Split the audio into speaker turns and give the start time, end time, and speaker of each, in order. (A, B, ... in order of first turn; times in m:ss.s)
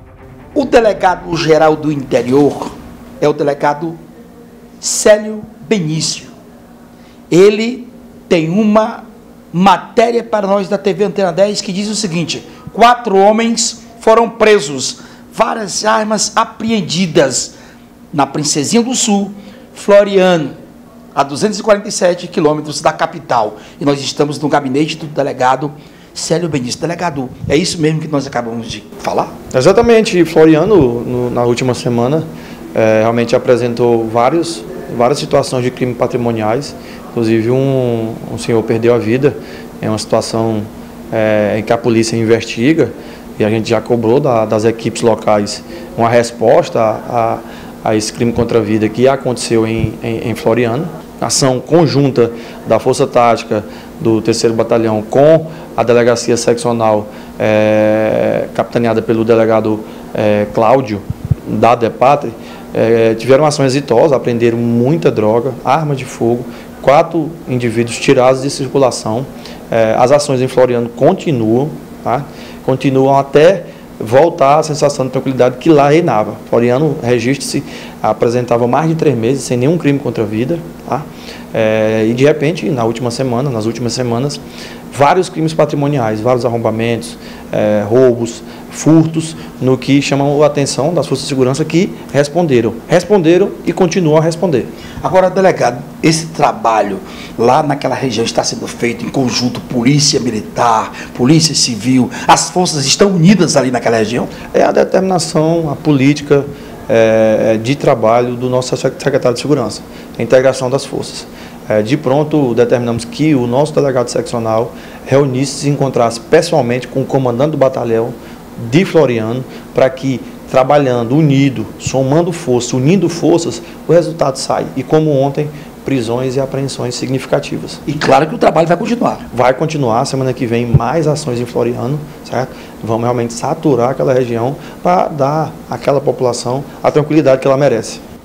0:00.5-0:04.0 A
0:04.8-0:06.3 A
0:07.3-0:17.5 A
0:18.1-0:20.6 A
0:21.1-0:29.3 A
0:29.5-1:24.4 B
1:24.9-1:34.7 B
1:35.0-1:44.3 A
1:44.5-2:07.8 B
2:07.8-2:09.2 A
2:09.3-2:18.0 B